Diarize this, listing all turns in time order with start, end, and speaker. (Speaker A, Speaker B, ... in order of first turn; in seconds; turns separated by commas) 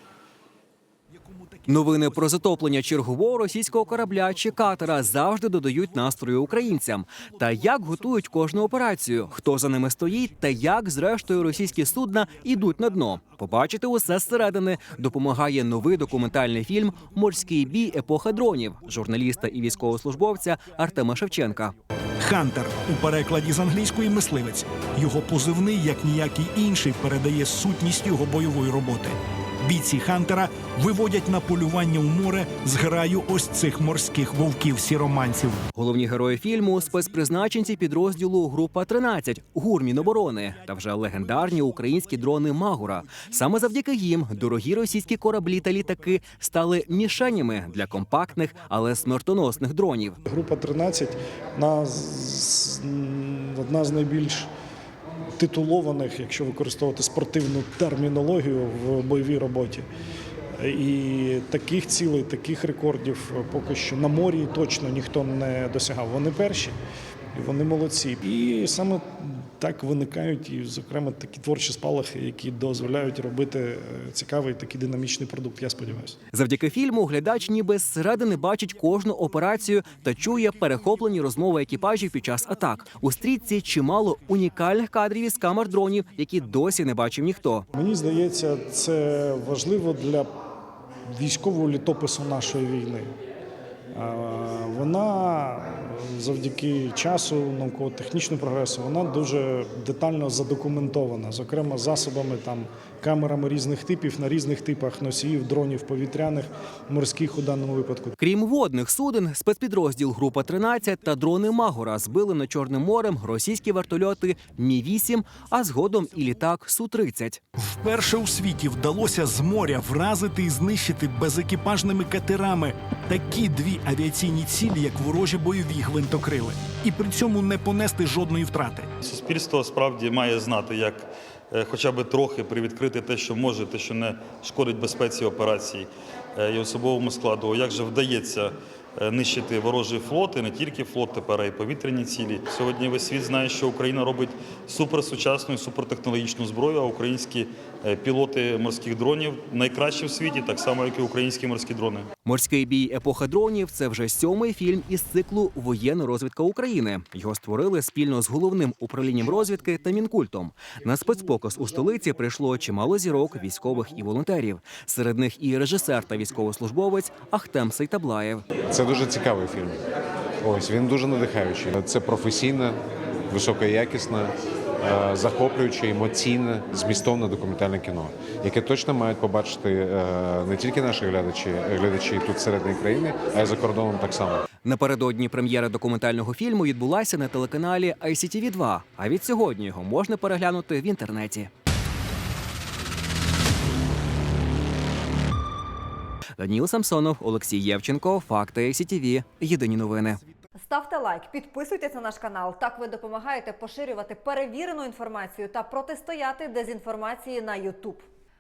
Speaker A: 1.7-21.7, Speaker B: 22.2-35.6, Speaker A: 35.7-50.2, Speaker C: 50.3-54.5, Speaker C: 55.4-59.9, Speaker C: 60.6-66.8, Speaker C: 67.3-76.2, Speaker A: 76.3-87.7, Speaker C: 87.7-90.3, Speaker C: 91.1-93.1, Speaker C: 93.9-108.2, Speaker A: 108.2-117.4, Speaker B: 117.6-128.9, Speaker D: 129.1-130.9, Speaker D: 131.6-135.8, Speaker D: 136.4-138.3, Speaker D: 139.0-152.1, Speaker A: 152.3-168.4, Speaker E: 168.7-169.8, Speaker E: 170.4-172.8, Speaker E: 173.3-184.4, Speaker A: 184.7-191.5, Speaker A: 196.4-200.2, Speaker F: 200.6-208.0